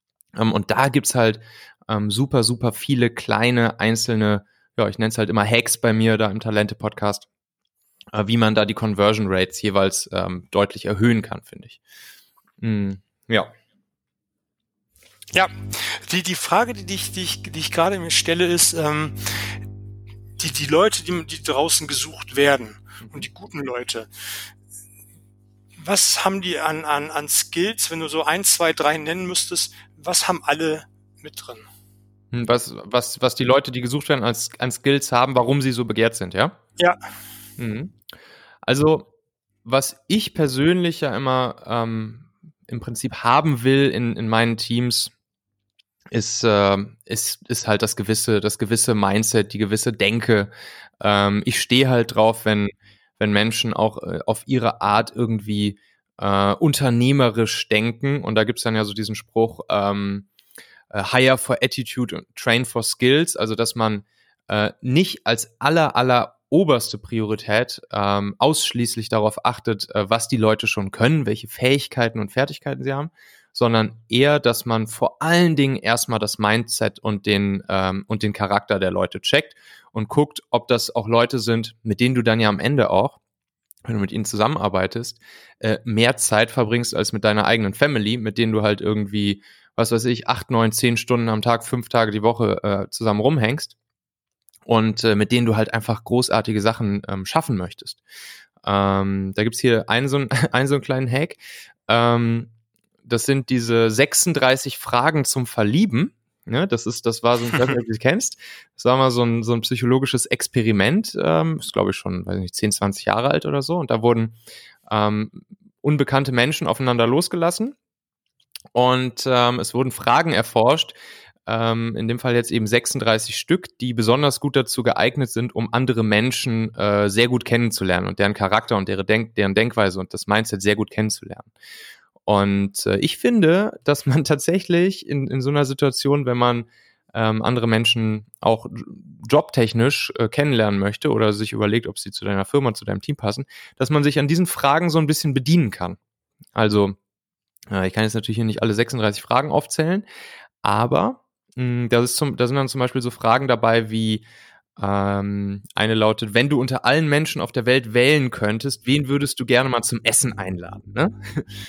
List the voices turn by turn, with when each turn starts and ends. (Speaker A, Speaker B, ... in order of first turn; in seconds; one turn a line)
Speaker A: 0.3-7.3
Speaker A: 8.1-11.8
Speaker A: 12.6-13.5
Speaker B: 15.3-19.6
Speaker B: 20.4-24.1
Speaker A: 23.0-23.2
Speaker B: 25.8-31.7
Speaker A: 32.3-36.6
Speaker B: 36.8-37.0
Speaker A: 37.6-38.0
Speaker A: 38.6-39.1
Speaker A: 39.6-45.1
Speaker A: 46.1-60.3
Speaker A: 60.9-83.2
Speaker A: 83.8-93.8
Speaker A: 94.7-98.0
Speaker A: 98.6-102.5
Speaker A: 103.0-117.8
Speaker A: 118.7-121.0
Speaker A: 121.5-131.5
Speaker A: 132.2-146.0
Speaker A: 146.5-147.0
Speaker A: 147.7-150.1
Speaker A: 150.6-154.2
Speaker A: 154.8-161.4